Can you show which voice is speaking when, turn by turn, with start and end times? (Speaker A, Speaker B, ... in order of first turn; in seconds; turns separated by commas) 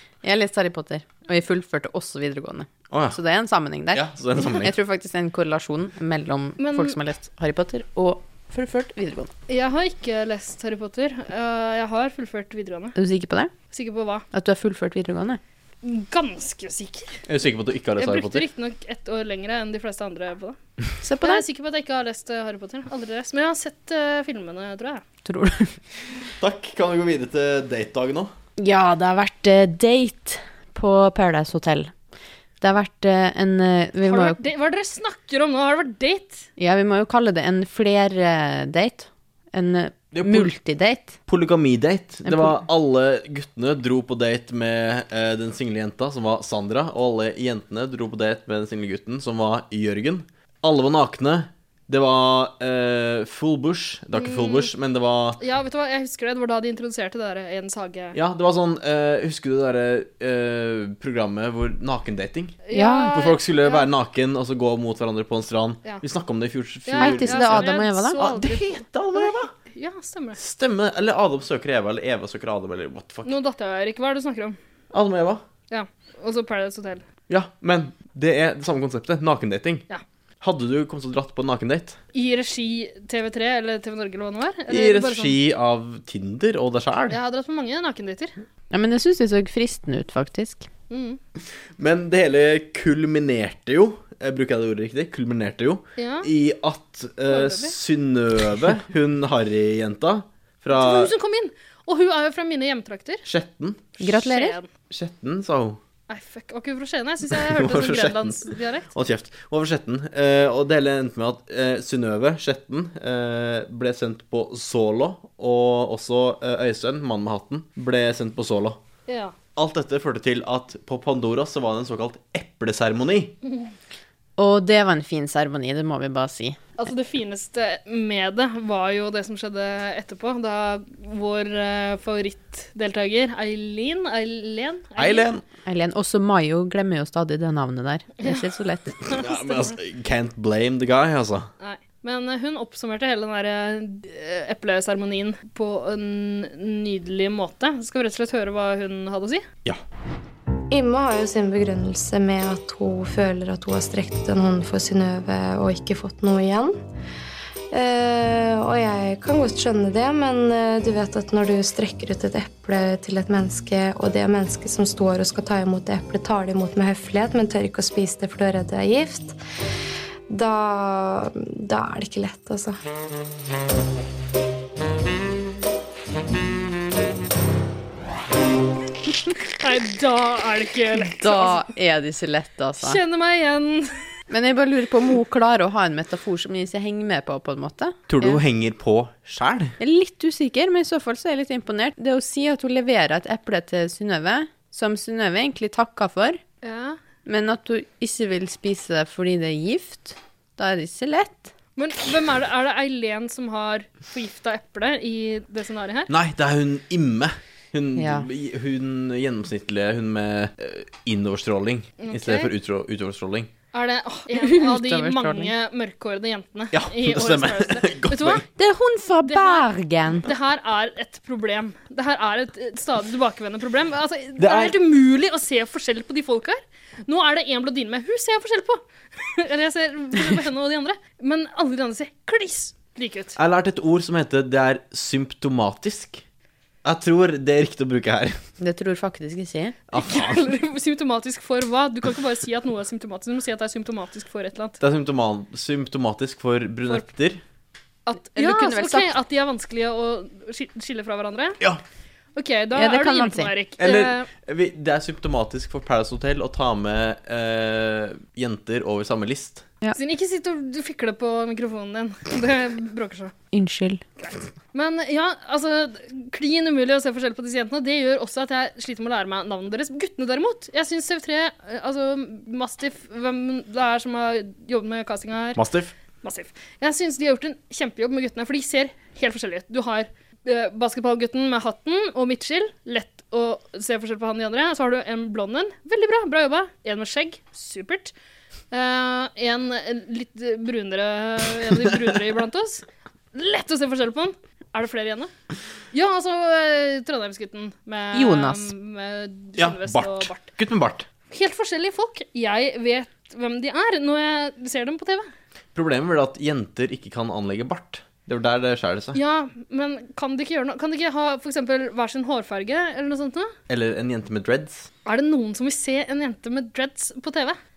Speaker A: 0.2-9.3, Speaker B: 2.9-3.2, Speaker B: 3.9-4.7, Speaker C: 6.6-7.0, Speaker C: 9.5-13.0, Speaker A: 12.9-13.5, Speaker C: 13.7-14.2, Speaker A: 14.3-15.4, Speaker C: 15.8-17.2, Speaker B: 17.3-18.4, Speaker C: 18.0-20.6, Speaker A: 21.0-21.4, Speaker C: 21.2-25.0, Speaker A: 25.2-25.7, Speaker B: 26.4-28.3, Speaker A: 28.6-31.9, Speaker A: 32.6-34.4, Speaker C: 34.0-36.5, Speaker A: 36.6-41.2, Speaker B: 40.1-40.5, Speaker B: 41.3-55.4, Speaker A: 42.2-42.6, Speaker C: 54.1-54.7, Speaker C: 55.4-58.2, Speaker B: 58.1-69.5, Speaker C: 62.6-63.9, Speaker A: 62.7-63.2, Speaker C: 66.8-70.4, Speaker A: 67.0-68.2, Speaker B: 70.4-73.3, Speaker C: 73.2-74.6, Speaker B: 74.9-75.4, Speaker C: 75.7-77.0, Speaker B: 77.3-79.8, Speaker B: 80.4-82.0, Speaker C: 82.1-85.4, Speaker B: 84.7-87.2, Speaker C: 87.1-88.3, Speaker A: 88.7-90.7, Speaker C: 90.9-91.2, Speaker B: 91.8-101.1, Speaker C: 96.0-96.3, Speaker C: 97.3-97.8, Speaker C: 100.7-103.2, Speaker B: 103.2-103.8, Speaker C: 104.0-104.7, Speaker A: 104.0-104.6, Speaker B: 104.9-105.8, Speaker C: 106.1-108.9, Speaker B: 107.3-118.8, Speaker C: 119.1-119.3, Speaker B: 119.5-123.3, Speaker A: 124.4-126.6, Speaker C: 126.8-135.2, Speaker B: 135.0-135.4, Speaker A: 135.7-138.9, Speaker C: 138.2-138.5, Speaker C: 139.0-139.8, Speaker B: 139.1-141.5, Speaker C: 141.6-149.4, Speaker D: 150.7-156.8, Speaker D: 157.7-169.3, Speaker D: 170.3-172.8, Speaker C: 179.6-181.6, Speaker A: 181.0-183.0, Speaker C: 182.8-184.0, Speaker A: 184.3-188.4, Speaker B: 188.1-189.7, Speaker A: 189.8-196.4, Speaker C: 196.6-197.0, Speaker A: 197.2-201.5, Speaker C: 201.8-206.1, Speaker B: 206.1-213.5, Speaker A: 207.9-208.3, Speaker C: 212.0-212.5, Speaker C: 213.7-218.4, Speaker A: 214.3-215.5, Speaker B: 216.7-218.4, Speaker A: 218.6-220.3, Speaker C: 219.2-219.7, Speaker C: 220.2-233.4, Speaker B: 224.4-224.7, Speaker B: 233.3-236.2, Speaker B: 236.8-238.4, Speaker A: 238.6-239.8, Speaker B: 239.9-240.4, Speaker C: 239.9-244.8, Speaker B: 244.8-247.4, Speaker C: 248.1-251.6, Speaker A: 248.3-249.1, Speaker C: 252.3-254.3, Speaker A: 252.7-253.5, Speaker B: 253.8-259.6, Speaker C: 259.9-263.3, Speaker A: 263.5-264.0, Speaker C: 264.2-275.6, Speaker B: 275.5-275.9, Speaker C: 276.2-288.1, Speaker C: 288.7-295.3, Speaker C: 295.9-300.5, Speaker A: 298.1-298.7, Speaker B: 299.6-301.1, Speaker C: 301.3-305.3, Speaker B: 305.7-309.2, Speaker C: 309.1-313.5, Speaker B: 313.7-314.9, Speaker C: 315.0-317.6